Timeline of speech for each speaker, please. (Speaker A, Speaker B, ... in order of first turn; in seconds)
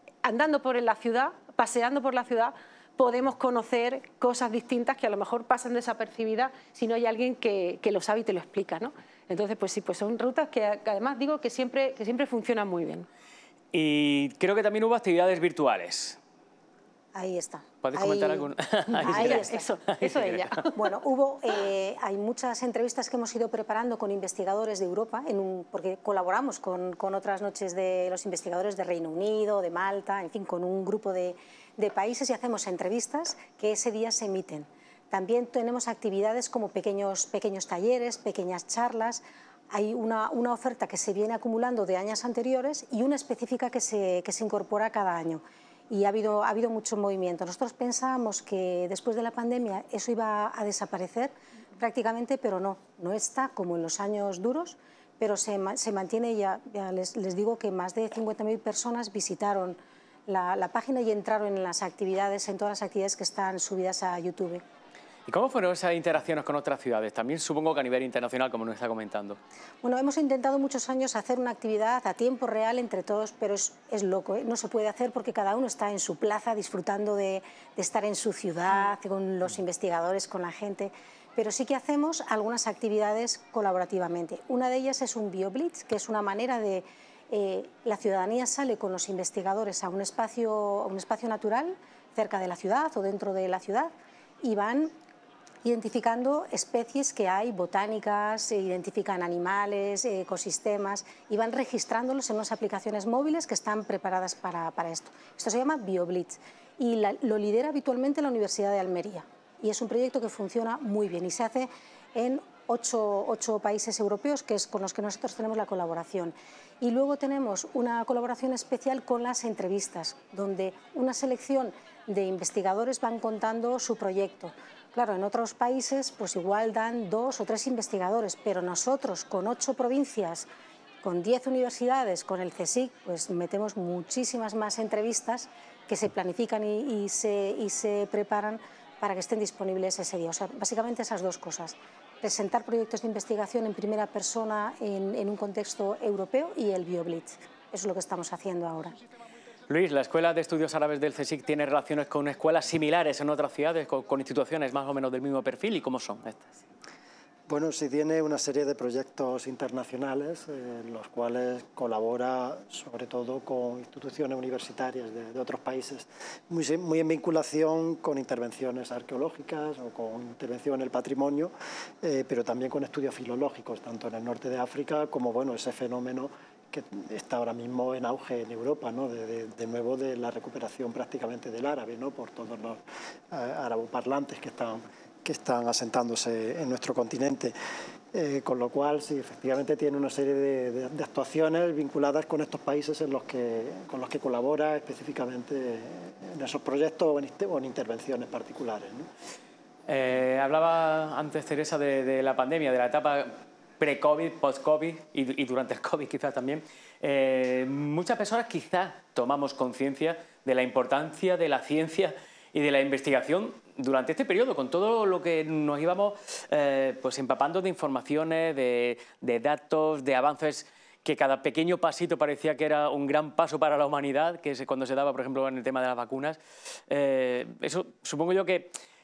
Speaker A: 0.2-13.1, 19.0-20.7
Speaker B: 13.7-16.2, 17.8-20.6, 65.3-69.4, 149.7-156.6, 199.9-228.7
Speaker C: 17.1-19.6, 20.7-64.6, 69.8-94.9, 95.6-130.5, 131.0-148.9
Speaker D: 157.5-182.8, 183.3-187.5, 188.1-199.1